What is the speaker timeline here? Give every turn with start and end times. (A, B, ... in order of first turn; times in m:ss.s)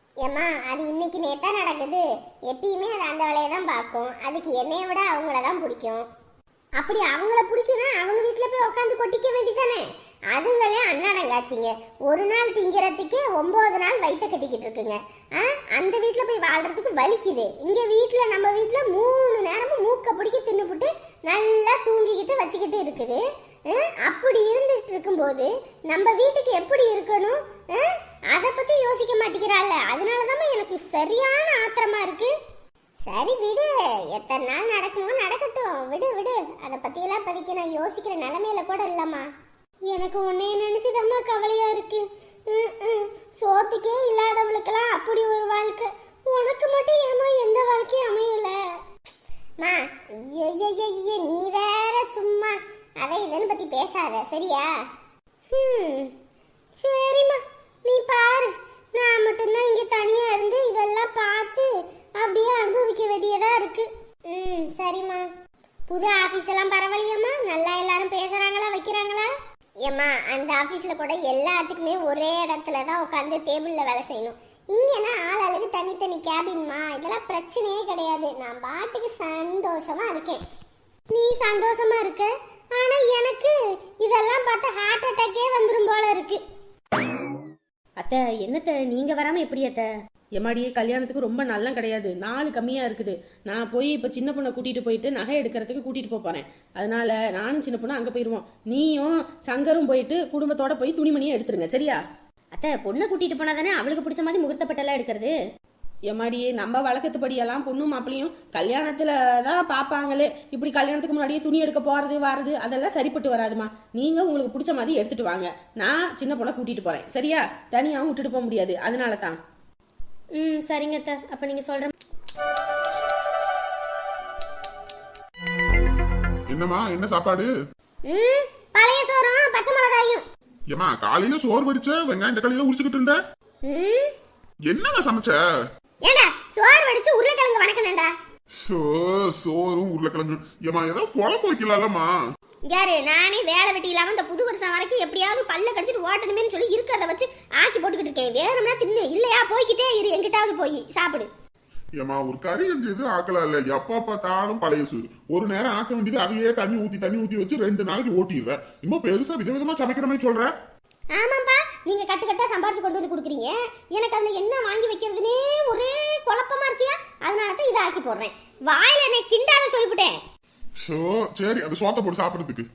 0:00.2-0:06.0 A
0:06.8-0:32.3 A
0:33.0-0:39.3 A
0:39.9-0:48.8 A
0:49.6-0:54.7 A
0:55.5-0:56.1 A
0:56.8-1:05.2 A
1:05.9-1:09.3 A
1:09.8-1:20.4 A
1:21.1-1:26.4 A
1:28.0-1:29.8 B
1:30.4-1:42.0 C
1:42.5-1:45.3 B
1:46.1-1:59.4 C
2:00.4-2:01.9 B
2:06.5-2:07.5 D
2:08.1-2:10.2 A
2:10.7-2:13.2 D
2:13.6-2:14.1 A
2:14.7-2:15.4 D
2:16.0-2:18.1 A
2:18.5-2:22.1 D
2:22.7-2:31.3 A
2:32.0-2:40.5 D
2:41.1-2:50.2 A
2:50.8-2:52.6 D